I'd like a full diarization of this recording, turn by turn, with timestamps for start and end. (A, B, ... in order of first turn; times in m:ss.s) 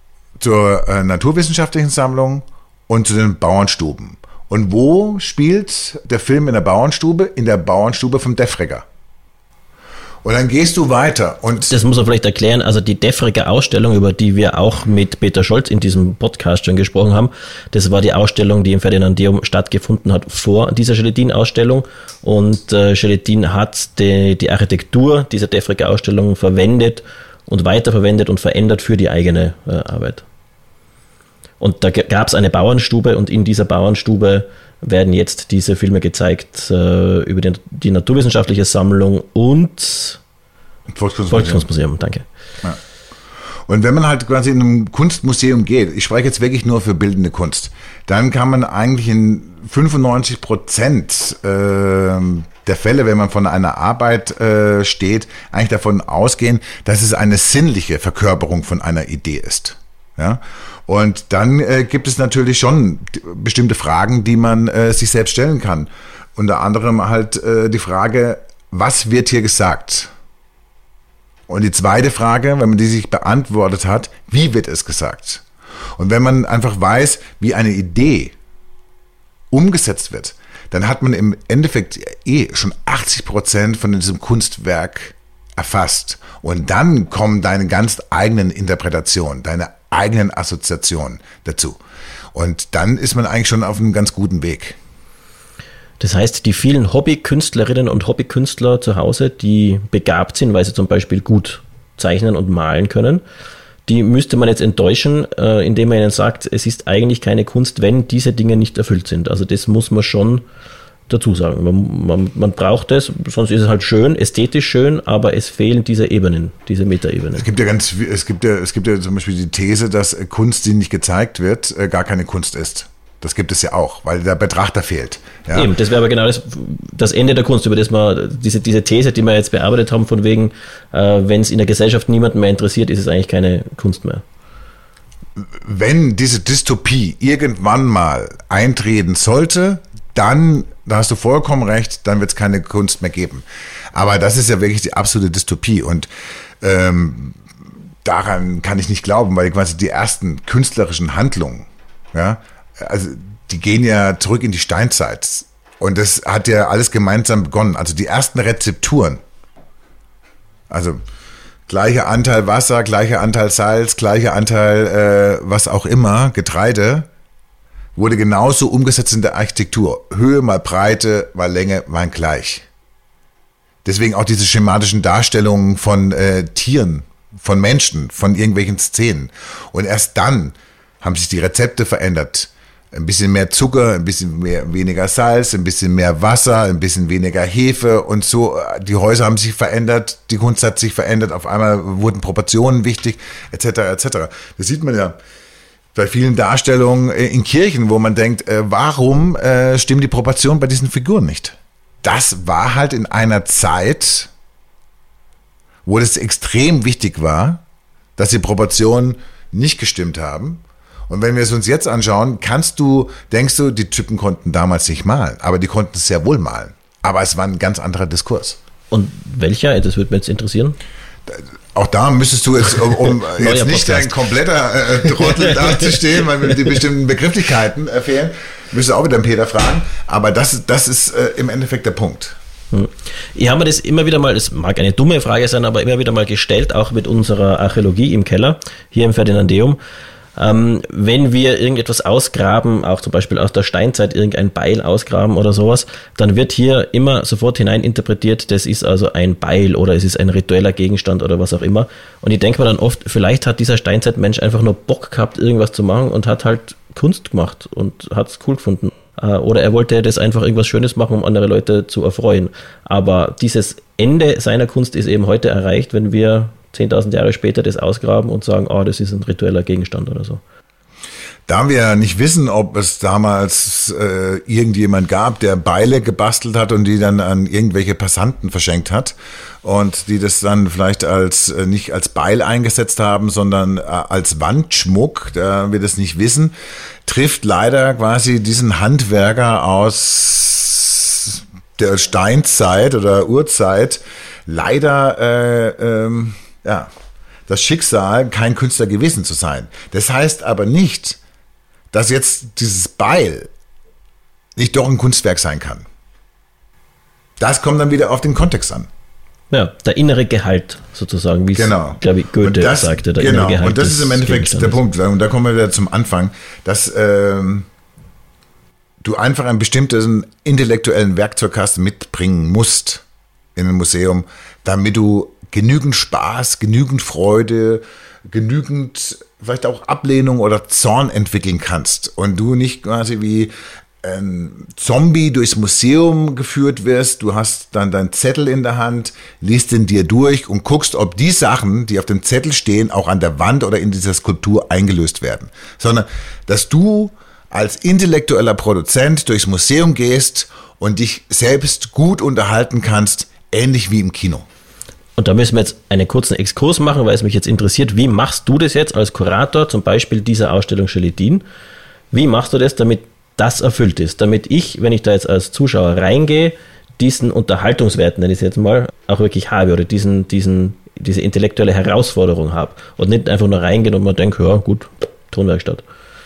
0:00.4-0:08.8 A
0:10.2-0:11.7 A
0:11.6-0:30.2 B
0:31.6-0:40.2 B
0:40.9-0:41.7 A
0:41.3-0:42.2 B
0:43.7-1:10.1 A
1:11.5-1:15.4 A
1:16.0-1:18.3 A
1:19.5-1:31.8 A
1:32.3-1:34.8 A
1:36.0-1:43.2 B
1:43.8-1:50.4 B
1:51.1-1:57.4 B
1:57.3-2:05.7 A
2:05.5-2:14.2 B
2:15.4-2:26.1 A
2:26.6-2:27.4 A
2:28.0-2:39.2 A
2:40.7-2:41.0 A
2:41.7-2:47.1 A
2:48.0-2:52.6 A
2:53.8-3:15.2 A
3:15.9-3:24.3 A
3:25.8-3:27.6 A
3:28.2-3:38.6 A
3:38.9-3:40.8 B
3:41.3-3:52.4 A
3:42.7-3:44.2 B
3:45.0-3:46.6 B
3:52.7-3:59.8 B
4:00.4-4:30.4 B
4:31.5-4:46.5 A
4:47.0-4:56.9 A
4:57.5-5:01.2 A
5:01.9-5:03.5 A
5:04.6-5:05.8 A
5:07.4-5:08.9 A
5:09.5-5:14.8 B
5:11.6-5:17.7 A
5:19.0-5:23.0 A
5:23.5-5:54.5 A
5:55.2-6:01.4 B
6:02.1-6:15.8 B